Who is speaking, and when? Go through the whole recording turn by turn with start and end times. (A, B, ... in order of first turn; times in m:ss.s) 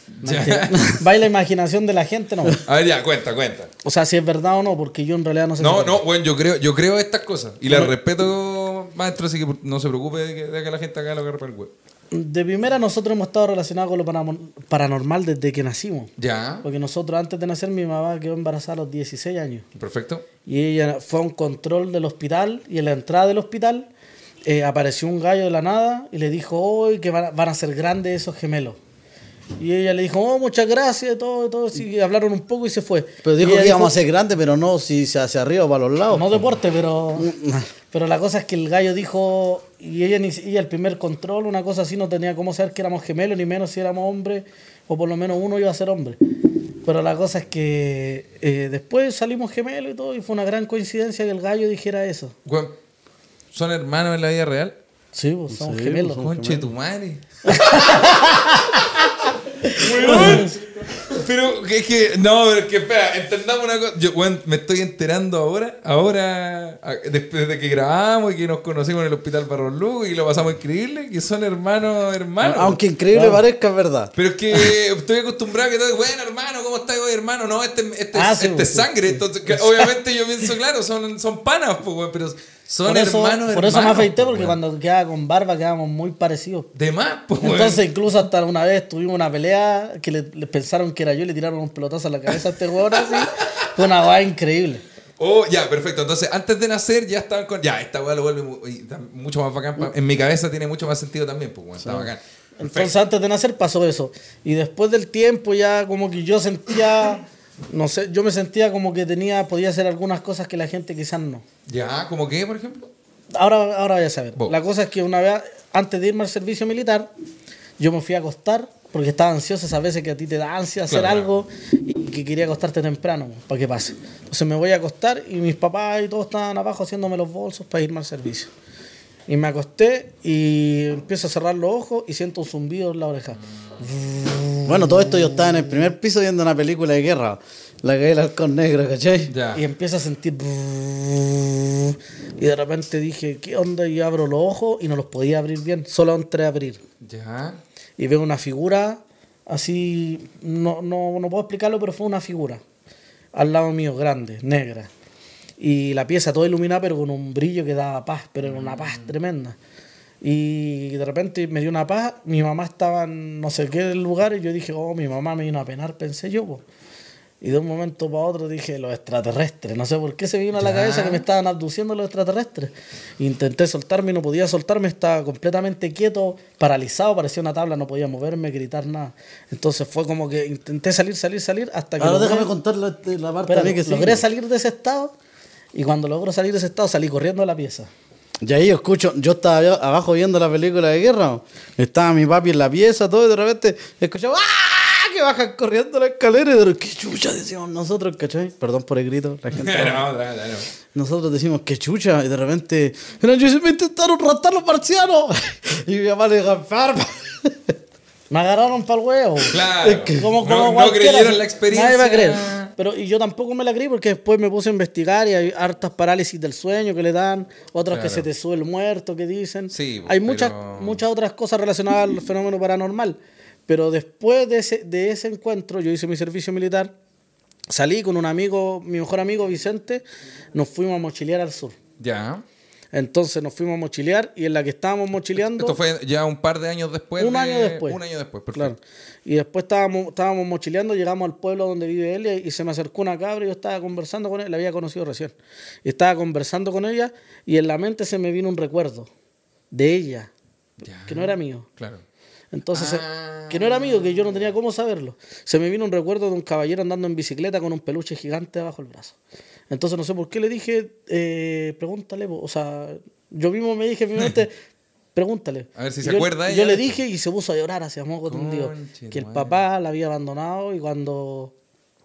0:00.2-0:00.9 A
0:00.2-0:02.6 B
0:00.6-0:01.0 C
0:02.6-0:03.7 A
0:03.8-0:06.0 B
0:05.6-0:11.7 A
0:12.1-0:16.1 B
0:16.2-0:16.6 A
0:16.6-0:19.6 B
0:19.7-0:20.2 A
0:20.4-0:23.9 B
0:24.4-0:28.8 B
0:29.6-0:33.9 B
0:33.2-0:36.5 C
0:36.1-0:37.3 B
0:37.2-0:37.7 C
0:37.9-0:52.3 B
0:52.4-0:52.7 A
0:53.5-0:54.8 A
0:55.1-0:56.3 B
0:55.5-0:56.7 C
0:56.1-0:58.8 A
0:57.5-0:59.1 B
0:59.6-1:00.5 B
0:59.8-1:12.8 A
1:00.1-1:00.5 C
1:12.4-1:14.1 C
1:13.1-1:13.4 B
1:14.2-1:24.6 A
1:18.1-1:19.9 B
1:22.8-1:26.7 B
1:26.7-1:27.8 A
1:27.4-1:34.8 B
1:32.3-1:33.8 A
1:35.2-1:42.9 A
1:41.8-1:42.1 C
1:42.6-1:51.4 B
1:51.7-1:52.8 A
1:53.3-1:57.1 B
1:57.8-2:08.5 B
2:00.9-2:01.3 A
2:09.3-2:15.9 B
2:14.6-2:19.3 C
2:19.3-2:19.6 A
2:19.5-2:26.8 B
2:27.0-2:27.6 A
2:28.0-2:32.6 B
2:33.3-2:34.9 B
2:35.6-2:39.6 B
2:38.4-2:39.1 A
2:40.2-2:46.6 B
2:47.4-3:02.5 B
2:50.6-2:51.2 A
3:02.0-3:04.2 C
3:03.4-3:05.1 B
3:05.7-3:07.9 B
3:08.4-3:20.1 C
3:19.5-3:20.7 A
3:20.9-3:27.7 C
3:28.3-3:46.9 B
3:29.5-3:32.7 A
3:29.8-3:30.2 C
3:37.9-3:38.2 A
3:39.7-3:41.0 A
3:47.7-3:51.8 B
3:52.0-3:52.4 A
3:52.9-3:55.8 B
3:55.4-3:58.7 A
3:57.2-3:58.0 B
3:58.5-4:09.1 B
4:09.7-4:10.3 B
4:10.8-4:12.0 A
4:11.1-4:11.7 B
4:12.5-4:19.2 B
4:12.7-4:14.5 A
4:19.7-4:24.5 B
4:25.1-4:31.5 B
4:25.8-4:27.0 A
4:28.3-4:29.6 A